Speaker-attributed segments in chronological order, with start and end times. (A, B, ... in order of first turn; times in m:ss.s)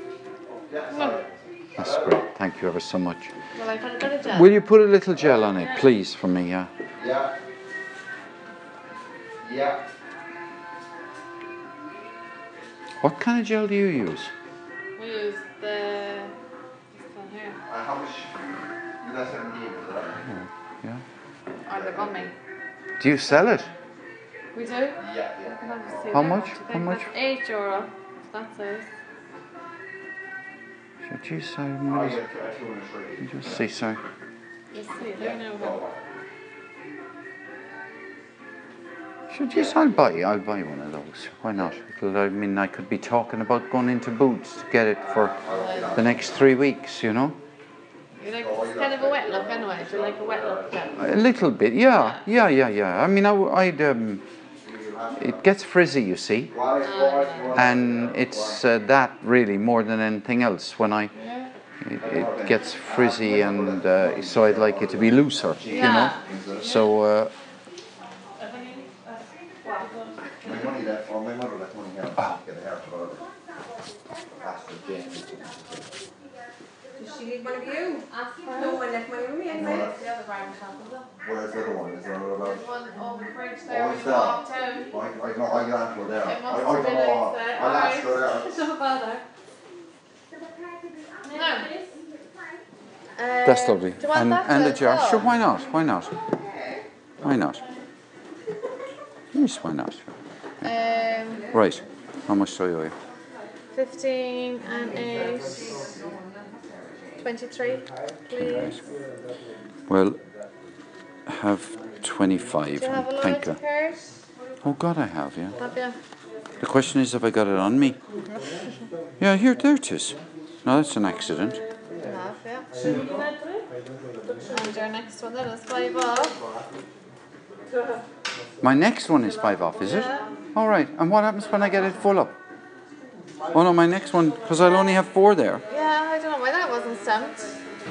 0:00.4-0:02.2 A
0:00.9-0:01.2 B
0:01.8-0:03.3 C
0:03.5-0:04.5 B
0:04.3-0:06.7 C
0:05.5-0:05.9 B
0:07.0-0:07.4 A
0:09.4-0:09.8 A
0:13.0-0:14.3 C
0:15.0-0:16.3 B
0:16.9-0:17.6 B
0:17.7-0:18.4 A
0:19.0-0:20.2 A
0:20.2-0:21.0 C
0:21.6-0:22.3 B
0:21.7-0:22.3 A
0:23.0-0:23.7 C
0:23.1-0:23.8 B
0:24.5-0:28.9 B
0:25.0-0:26.4 A
0:26.1-0:27.1 C
0:31.0-0:32.2 C
0:31.9-0:33.6 A
0:33.2-0:34.0 C
0:34.7-0:35.8 B
0:35.2-0:36.0 A
0:39.3-0:45.4 C
0:39.5-0:40.0 A
0:45.0-0:46.4 A
0:45.5-0:45.9 B
0:45.9-0:47.4 C
0:48.2-0:51.1 B
0:48.2-0:51.2 A
0:51.0-0:54.2 C
0:51.8-0:52.2 B
0:54.6-0:55.4 A
0:55.2-0:56.5 C
0:56.5-0:58.6 A
0:56.8-0:57.7 B
0:57.5-1:01.1 C
1:01.1-1:01.5 B
1:01.8-1:07.3 C
1:02.0-1:06.8 A
1:05.7-1:06.9 B
1:08.4-1:10.7 B
1:10.4-1:13.3 A
1:14.4-1:15.8 A
1:17.0-1:21.1 D
1:18.1-1:18.8 B
1:19.5-1:20.1 A
1:21.2-1:22.7 A
1:22.4-1:24.9 B
1:23.6-1:28.6 A
1:26.2-1:29.2 B
1:31.2-1:31.8 B
1:33.2-1:35.3 B
1:33.4-1:36.2 C
1:36.2-1:36.8 D
1:37.2-1:37.6 C
1:39.3-1:40.7 C
1:40.6-1:41.5 B
1:41.3-1:41.8 D
1:41.5-1:43.0 C
1:43.7-1:45.7 B
1:44.7-1:47.2 D
1:47.2-1:48.8 B
1:48.3-1:48.8 C
1:49.9-1:50.2 C
1:51.2-1:53.6 C
1:52.8-1:54.2 B
1:54.6-1:55.6 C
1:55.6-1:56.0 B
1:56.6-1:58.0 C
1:59.2-2:01.6 C
2:02.0-2:03.5 B
2:02.8-2:03.1 C
2:04.4-2:06.4 B
2:08.6-2:12.4 C
2:09.8-2:10.3 B
2:13.5-2:15.6 C
2:15.7-2:17.6 B